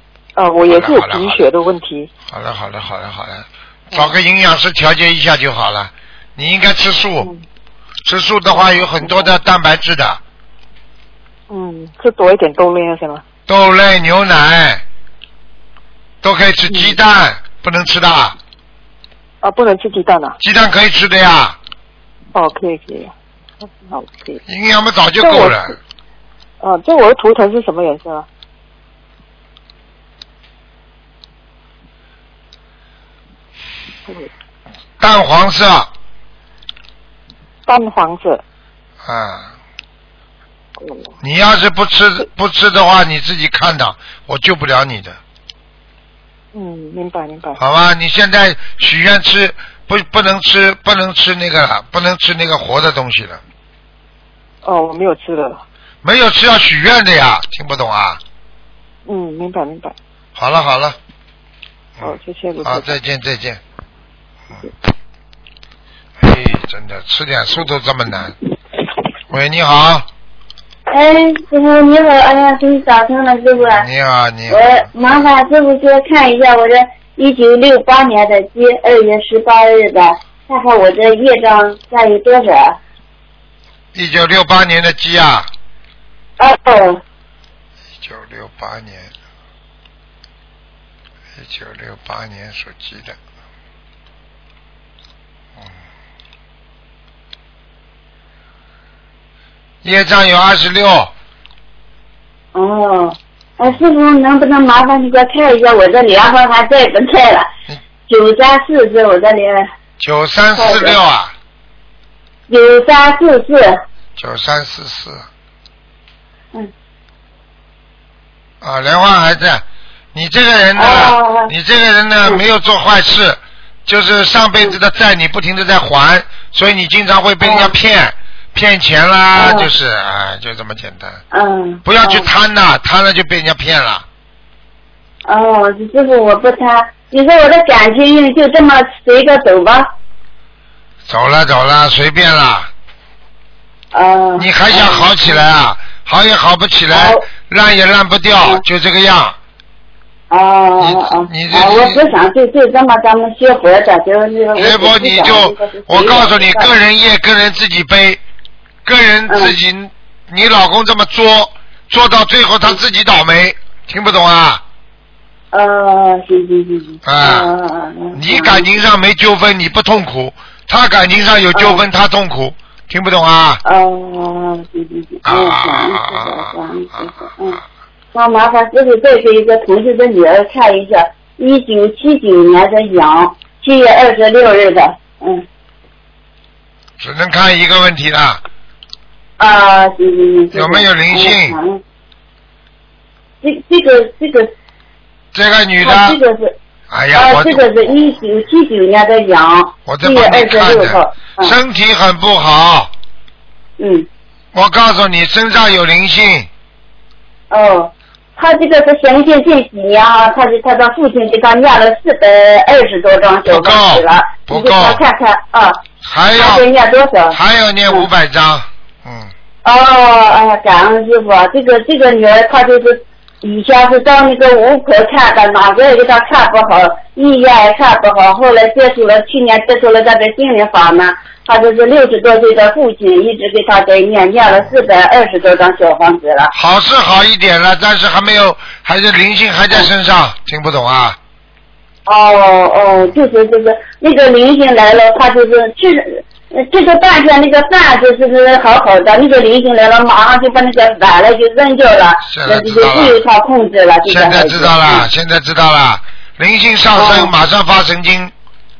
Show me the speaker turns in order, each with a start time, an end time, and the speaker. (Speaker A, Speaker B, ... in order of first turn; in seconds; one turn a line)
Speaker A: 0.3-2.1
Speaker B: 0.6-1.5
Speaker B: 2.3-7.3
Speaker B: 8.0-10.2
Speaker A: 8.5-9.3
Speaker A: 11.5-13.2
Speaker B: 13.5-14.8
Speaker B: 16.2-18.4
Speaker A: 16.7-17.0
Speaker A: 19.4-20.4
Speaker B: 20.4-21.6
Speaker A: 22.3-23.1
Speaker A: 23.6-24.4
Speaker B: 24.4-25.8
Speaker A: 25.2-25.7
Speaker A: 26.6-28.2
Speaker B: 35.0-35.9
Speaker A: 37.6-38.4
Speaker B: 39.0-39.5
Speaker A: 40.8-41.1
Speaker B: 41.2-45.2
Speaker A: 46.5-47.6
Speaker B: 47.6-53.4
Speaker A: 54.6-55.6
Speaker B: 56.0-58.2
Speaker A: 59.0-59.9
Speaker B: 60.4-61.0
Speaker B: 62.0-63.6
Speaker A: 62.0-63.0
Speaker B: 66.2-68.3
Speaker B: 69.3-70.0
Speaker C: 70.9-73.9
Speaker B: 73.6-74.9
Speaker C: 74.5-82.8
Speaker B: 83.9-85.5
Speaker C: 86.4-87.0
Speaker B: 88.0-89.1
Speaker B: 91.3-93.2
Speaker B: 99.8-101.1
Speaker C: 102.5-107.5
Speaker C: 108.1-109.7
Speaker B: 110.0-111.3
Speaker C: 110.5-111.0
Speaker C: 112.5-113.8
Speaker B: 114.2-115.3
Speaker B: 118.6-131.2
Speaker C: 120.7-121.5
Speaker C: 127.4-127.7
Speaker C: 129.3-129.7
Speaker C: 131.3-132.3
Speaker B: 131.8-134.1
Speaker C: 135.2-139.9
Speaker B: 141.1-142.7
Speaker C: 143.9-145.4
Speaker B: 144.4-149.4
Speaker C: 146.9-147.2
Speaker C: 150.3-156.7
Speaker B: 150.8-152.0
Speaker B: 154.5-158.2
Speaker B: 158.8-164.6
Speaker C: 159.3-159.6
Speaker C: 165.5-168.7
Speaker B: 167.0-167.5
Speaker B: 168.1-173.6
Speaker C: 171.5-171.8
Speaker C: 173.6-177.6
Speaker B: 175.2-177.1
Speaker C: 178.1-185.4
Speaker B: 187.0-188.4
Speaker C: 189.4-191.8
Speaker B: 190.5-191.6
Speaker C: 193.4-194.5
Speaker B: 195.3-196.2
Speaker C: 195.8-196.6
Speaker B: 196.9-197.7
Speaker C: 197.1-201.6
Speaker B: 199.9-202.9
Speaker C: 203.8-204.1
Speaker B: 204.5-206.5
Speaker C: 207.5-215.8
Speaker B: 213.5-215.0
Speaker B: 216.0-216.7
Speaker C: 216.3-218.1
Speaker B: 217.3-219.3
Speaker C: 219.6-236.5
Speaker B: 236.5-241.2
Speaker C: 242.1-255.1
Speaker B: 252.2-253.2
Speaker B: 254.1-258.3
Speaker C: 256.9-257.3